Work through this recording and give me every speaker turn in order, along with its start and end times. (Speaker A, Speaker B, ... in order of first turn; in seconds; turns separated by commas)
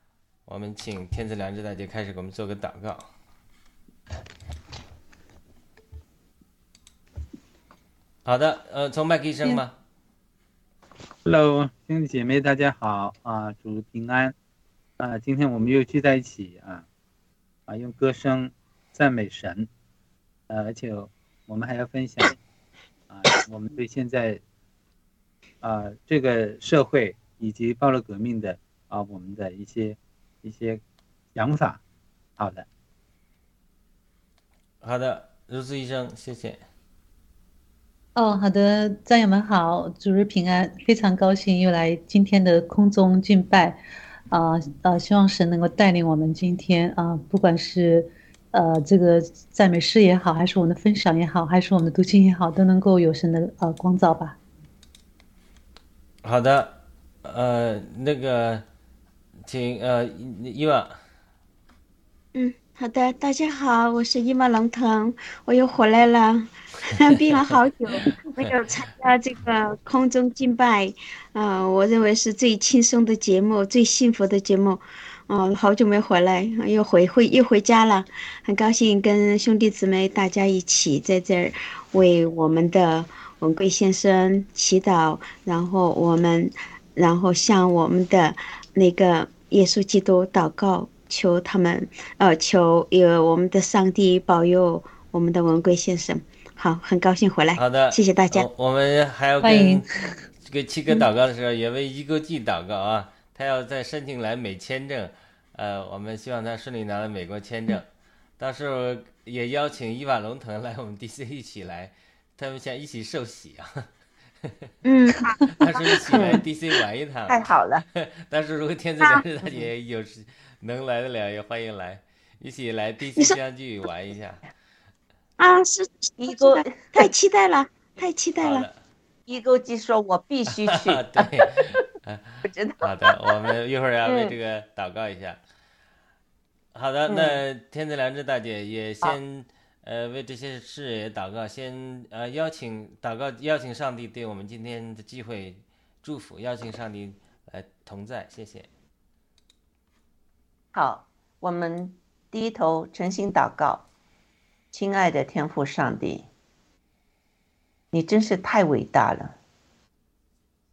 Speaker A: 0.5-3.1, Speaker A: 8.2-9.7, Speaker B: 11.2-14.3, Speaker B: 15.0-16.8, Speaker B: 17.7-19.7, Speaker B: 20.5-22.4, Speaker B: 23.1-24.4, Speaker B: 25.6-30.8, Speaker B: 31.3-31.8, Speaker B: 32.4-32.6, Speaker A: 34.8-36.6, Speaker C: 38.1-43.8, Speaker C: 44.3-54.4, Speaker A: 56.2-58.6, Speaker A: 59.5-61.0, Speaker D: 62.3-98.5, Speaker A: 97.5-99.9, Speaker C: 99.4-100.1, Speaker A: 100.4-107.8, Speaker A: 108.4-113.9, Speaker A: 114.4-114.7, Speaker D: 114.8-115.3, Speaker E: 115.3-116.4, Speaker A: 115.5-117.4, Speaker D: 116.0-116.3, Speaker E: 117.3-117.8, Speaker A: 117.9-124.4, Speaker D: 125.4-128.7, Speaker E: 126.2-127.1, Speaker A: 128.4-128.7, Speaker E: 129.3-131.5, Speaker A: 130.7-135.4, Speaker E: 132.4-133.3, Speaker E: 134.0-134.3, Speaker A: 136.7-148.7, Speaker E: 137.1-137.4, Speaker E: 150.7-153.8, Speaker E: 154.7-156.2, Speaker E: 157.9-159.3